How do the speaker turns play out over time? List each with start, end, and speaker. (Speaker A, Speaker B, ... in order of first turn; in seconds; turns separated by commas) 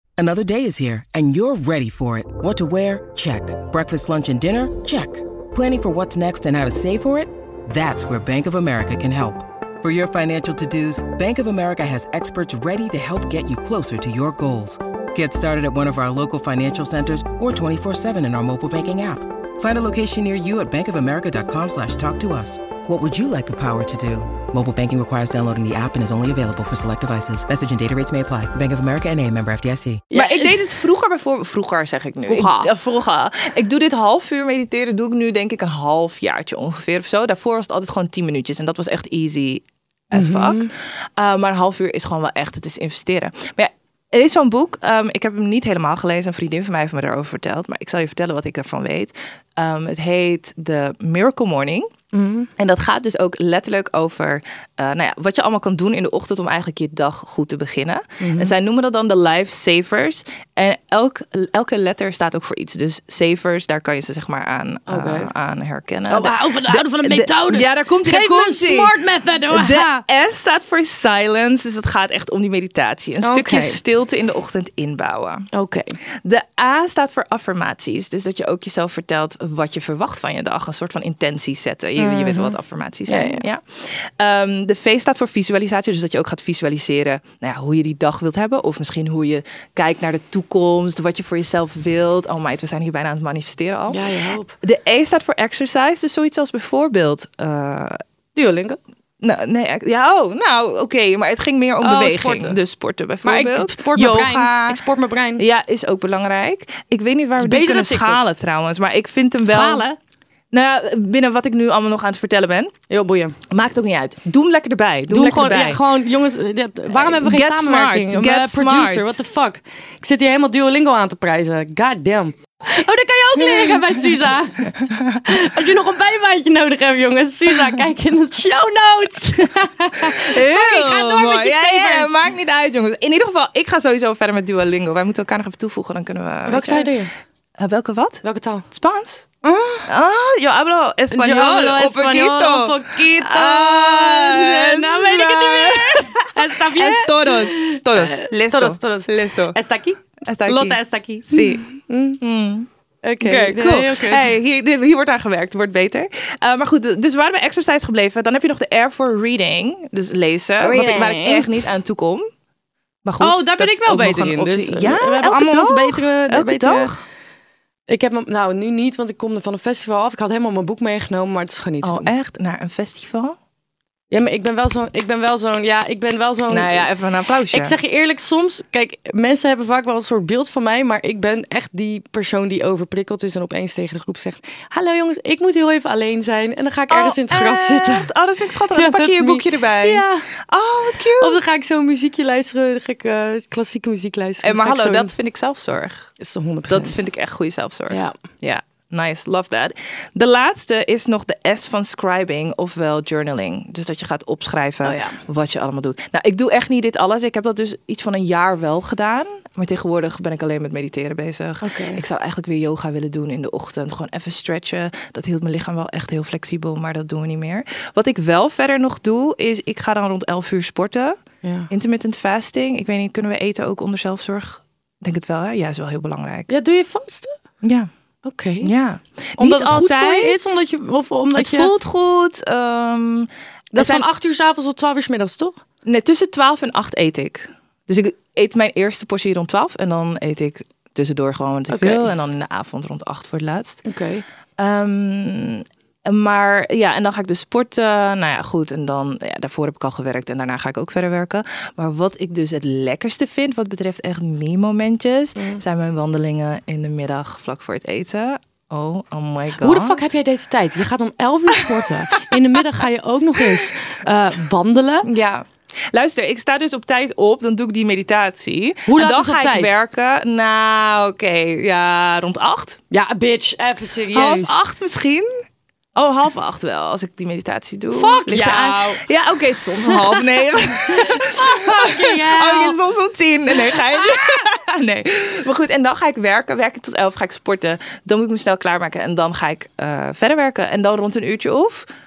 Speaker A: 0.2-30.0, Speaker B: 30.1-30.6, Speaker C: 30.1-51.9, Speaker B: 32.3-32.7, Speaker B: 40.1-40.7, Speaker B: 52.1-52.5, Speaker C: 52.6-69.0, Speaker B: 58.2-58.5, Speaker B: 64.9-65.3, Speaker B: 66.1-70.0, Speaker C: 69.5-75.5, Speaker B: 73.2-73.8, Speaker B: 75.5-76.0, Speaker C: 76.2-94.0, Speaker B: 82.0-82.6, Speaker B: 83.1-83.4, Speaker B: 93.9-94.5, Speaker C: 94.6-98.0, Speaker B: 98.4-98.8, Speaker C: 99.2-104.8, Speaker B: 101.8-102.6, Speaker B: 103.2-105.4, Speaker C: 105.4-109.8, Speaker B: 107.4-108.2, Speaker B: 109.5-110.0, Speaker C: 110.5-112.7, Speaker B: 112.9-113.4, Speaker C: 113.5-115.8, Speaker B: 115.1-132.2, Speaker C: 116.9-119.2, Speaker C: 123.4-124.1, Speaker C: 124.7-125.2, Speaker C: 130.0-136.9, Speaker B: 136.5-137.1, Speaker C: 137.6-139.3, Speaker B: 138.2-138.7, Speaker B: 139.4-139.9, Speaker C: 139.9-149.6, Speaker B: 141.1-152.2, Speaker C: 150.3-151.7, Speaker C: 152.2-152.7, Speaker B: 153.0-154.3, Speaker C: 153.2-162.3, Speaker B: 160.6-161.5, Speaker C: 163.1-167.0, Speaker B: 163.2-166.9, Speaker B: 167.9-172.1, Speaker C: 171.8-173.4, Speaker B: 174.1-176.9, Speaker C: 176.5-177.8, Speaker B: 177.5-188.1, Speaker C: 186.9-191.4, Speaker B: 188.7-190.3, Speaker B: 191.2-195.1, Speaker C: 194.4-196.1, Speaker B: 196.2-196.9, Speaker C: 196.7-221.2, Speaker B: 197.9-198.2, Speaker B: 204.8-205.2, Speaker B: 211.6-212.0, Speaker B: 221.4-221.7, Speaker C: 221.7-226.5, Speaker B: 226.5-227.3, Speaker C: 227.6-227.9, Speaker B: 228.2-228.7, Speaker C: 228.6-230.5, Speaker B: 229.4-231.7, Speaker C: 231.3-234.1, Speaker B: 233.7-235.6, Speaker C: 235.9-243.8, Speaker B: 241.7-242.1, Speaker B: 243.8-244.2, Speaker C: 244.6-260.0, Speaker B: 255.4-255.6, Speaker B: 259.6-265.1, Speaker C: 261.6-262.3, Speaker C: 263.4-263.7, Speaker C: 265.1-272.8, Speaker B: 268.9-269.7, Speaker B: 272.9-274.6, Speaker C: 274.1-275.3, Speaker C: 276.0-291.9, Speaker B: 277.9-279.0, Speaker B: 279.9-280.2, Speaker B: 280.9-282.8, Speaker B: 283.5-284.5